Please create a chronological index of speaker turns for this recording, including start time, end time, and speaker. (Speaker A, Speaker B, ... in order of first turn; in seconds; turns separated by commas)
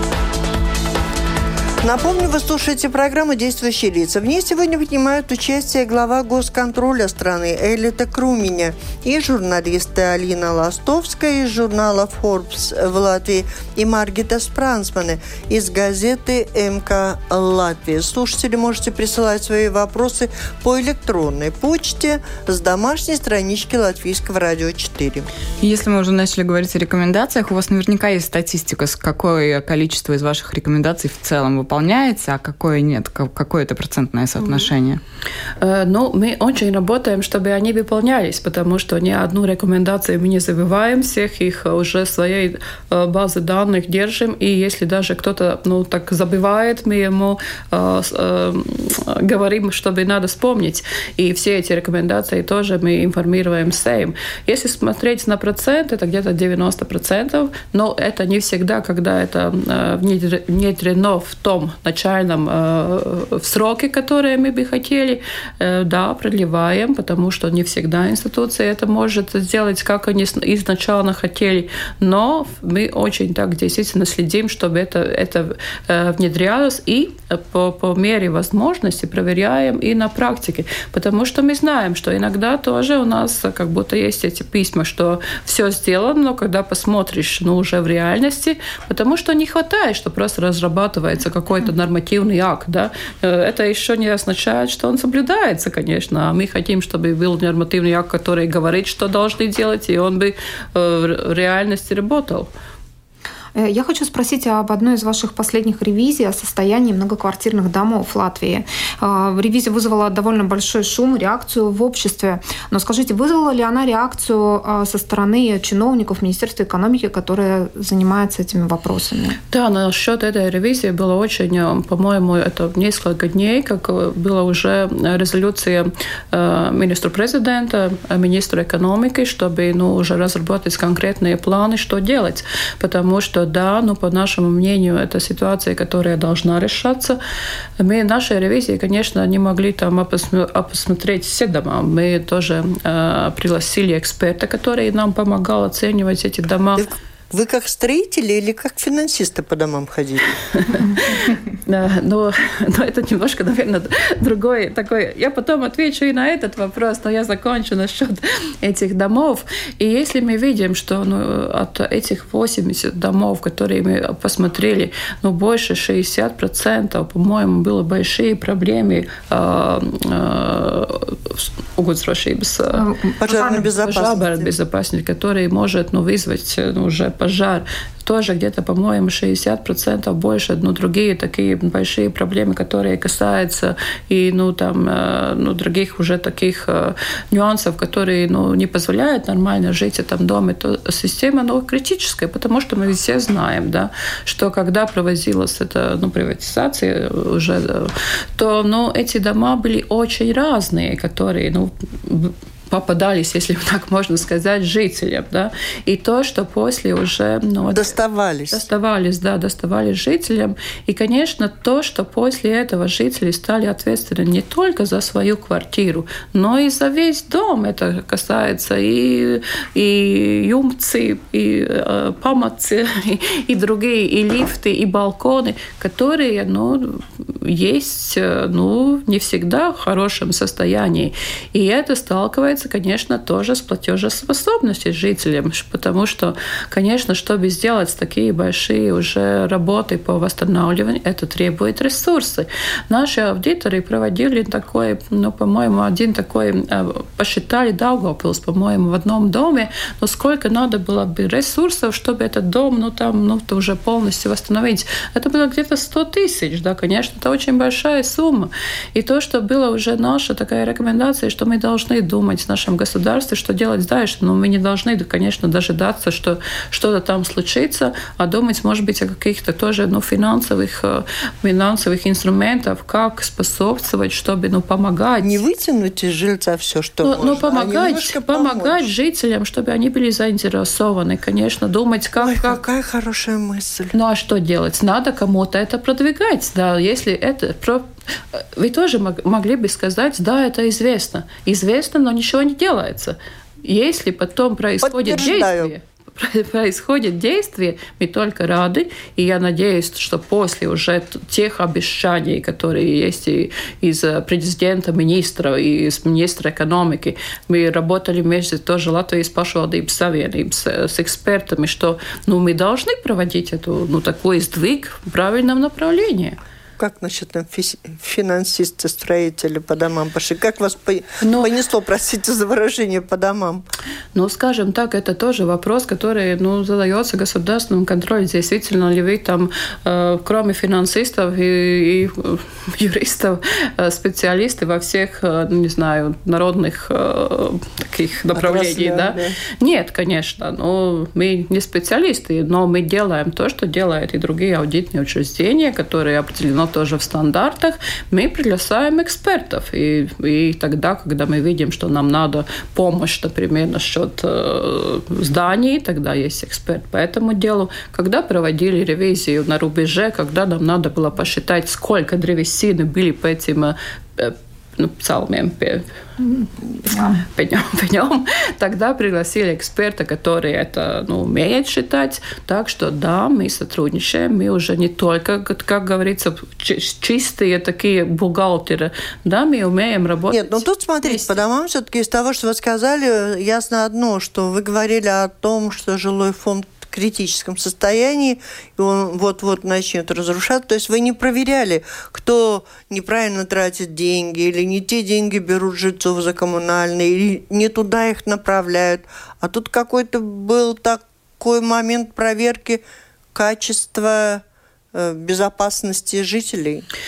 Speaker A: 1.8-25.3, Speaker B: 25.6-35.0, Speaker C: 35.6-102.5, Speaker D: 103.5-119.4, Speaker C: 119.5-137.2, Speaker C: 137.8-146.9, Speaker A: 146.8-150.3, Speaker C: 150.6-172.8, Speaker D: 172.7-173.7, Speaker A: 173.2-174.5, Speaker C: 173.5-207.9, Speaker A: 207.7-208.7, Speaker C: 208.5-275.4, Speaker A: 275.2-278.9, Speaker C: 277.0-282.6, Speaker A: 282.2-283.9, Speaker C: 283.9-316.4, Speaker A: 294.8-295.7, Speaker A: 316.8-323.6, Speaker C: 321.2-321.5, Speaker C: 324.1-365.8, Speaker A: 338.3-339.4, Speaker D: 366.3-367.2, Speaker C: 367.2-381.3, Speaker A: 380.3-402.8, Speaker A: 403.3-406.8